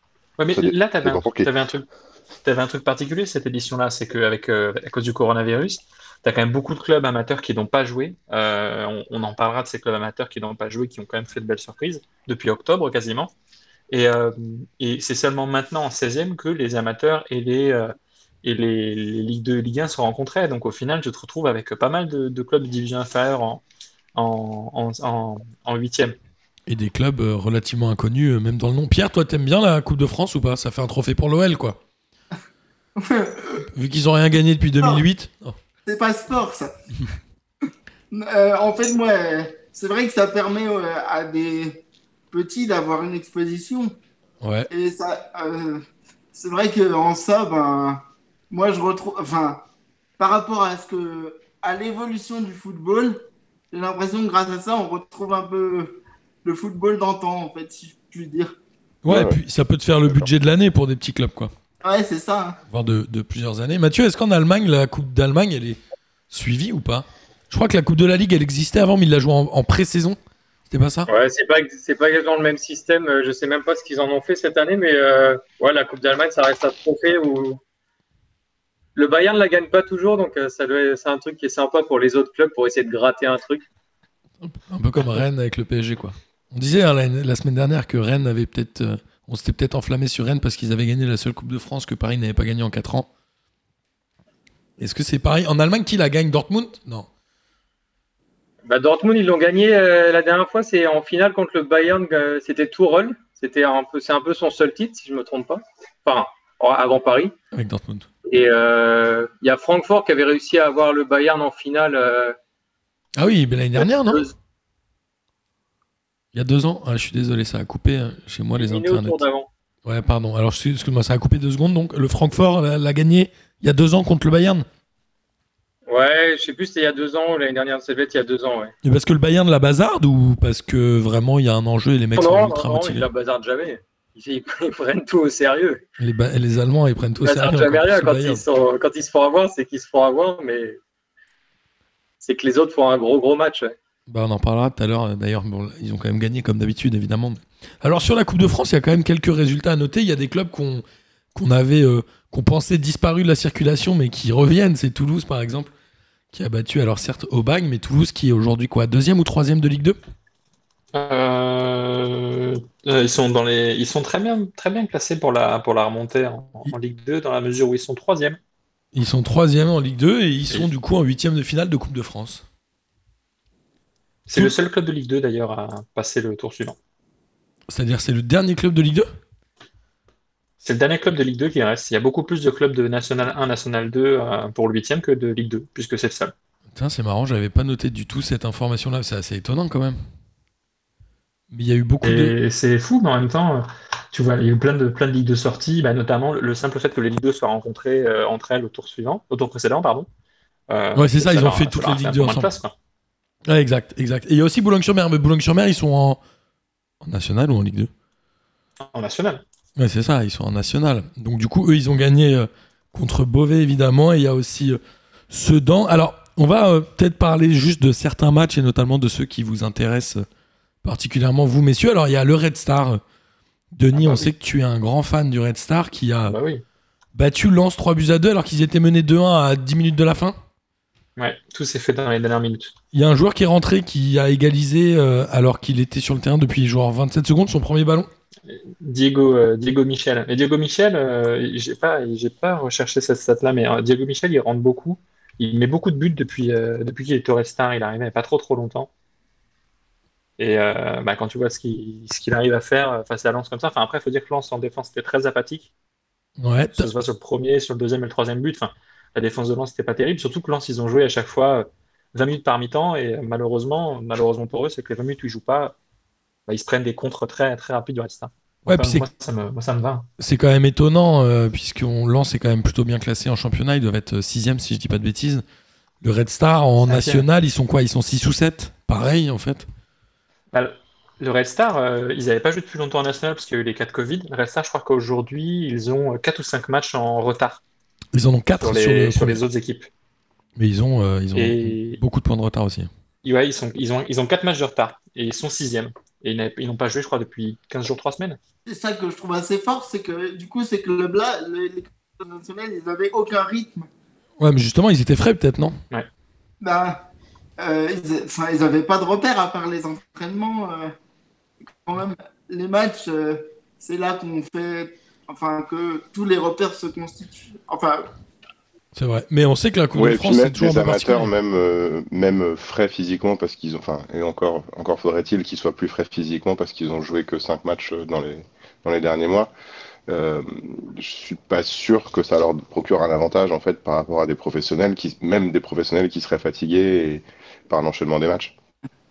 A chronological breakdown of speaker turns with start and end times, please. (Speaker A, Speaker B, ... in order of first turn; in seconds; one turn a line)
Speaker A: 0.4-1.9
Speaker B: 0.5-1.5
Speaker A: 2.4-13.3
Speaker A: 13.9-23.6
Speaker A: 24.1-26.1
Speaker C: 26.7-31.8
Speaker D: 33.0-33.6
Speaker C: 33.6-35.5
Speaker D: 35.9-36.7
Speaker D: 38.1-43.9
Speaker C: 44.4-44.7
Speaker D: 44.7-45.8
Speaker D: 46.3-49.6
Speaker D: 50.2-58.6
Speaker C: 59.0-61.5
Speaker B: 59.1-59.4
Speaker D: 61.8-62.6
Speaker C: 62.7-65.8
Speaker C: 66.3-70.2
Speaker C: 70.7-71.1
Speaker E: 71.1-77.6
Speaker E: 78.9-83.6
Speaker C: 84.4-93.1
Speaker C: 94.8-97.1
Speaker E: 98.6-107.3
Speaker C: 107.5-108.1
Speaker E: 108.2-112.3
Speaker C: 113.2-114.3
Speaker E: 113.8-114.3
Speaker C: 116.3-119.2
Speaker E: 118.5-119.5
Speaker C: 119.8-124.7
Speaker E: 125.9-128.7
Speaker C: 128.8-133.1
Speaker E: 132.2-135.8
Speaker C: 136.0-138.4
Speaker E: 137.2-140.8
Speaker E: 142.2-143.7
Speaker C: 144.1-150.8
Speaker C: 151.3-155.7
Speaker C: 156.3-160.0
Speaker A: 160.9-168.4
Speaker C: 168.9-172.4
Speaker A: 174.3-176.8
Speaker C: 177.7-179.1
Speaker A: 180.6-186.3
Speaker C: 186.8-190.0
Speaker C: 191.5-192.3
Speaker A: 192.0-200.1
Speaker A: 200.7-202.7
Speaker C: 200.9-202.5
Speaker C: 203.5-206.2
Speaker C: 207.0-207.9
Speaker A: 208.9-209.4
Speaker C: 209.8-214.8
Speaker C: 215.3-220.2
Speaker C: 220.8-223.0
Speaker C: 223.7-226.4
Speaker A: 223.9-224.3
Speaker A: 226.3-226.6
Speaker C: 227.1-230.4
Speaker A: 231.2-232.7
Speaker C: 232.9-238.1
Speaker A: 238.5-248.9
Speaker A: 250.4-255.7
Speaker C: 256.4-256.9
Speaker A: 256.7-265.8
Speaker A: 266.5-270.1
Speaker C: 268.6-269.1
Speaker C: 270.2-275.4
Speaker C: 276.0-279.6
Speaker A: 276.8-277.3
Speaker A: 280.5-287.6
Speaker C: 288.1-289.4
Speaker A: 288.6-289.9
Speaker C: 290.6-292.9
Speaker A: 291.3-292.0
Speaker A: 293.2-298.4
Speaker D: 298.6-303.9
Speaker C: 304.4-305.8
Speaker D: 306.6-307.0
Speaker D: 307.6-310.9
Speaker D: 311.8-318.1
Speaker C: 318.9-321.3
Speaker B: 319.9-329.5
Speaker B: 330.1-338.5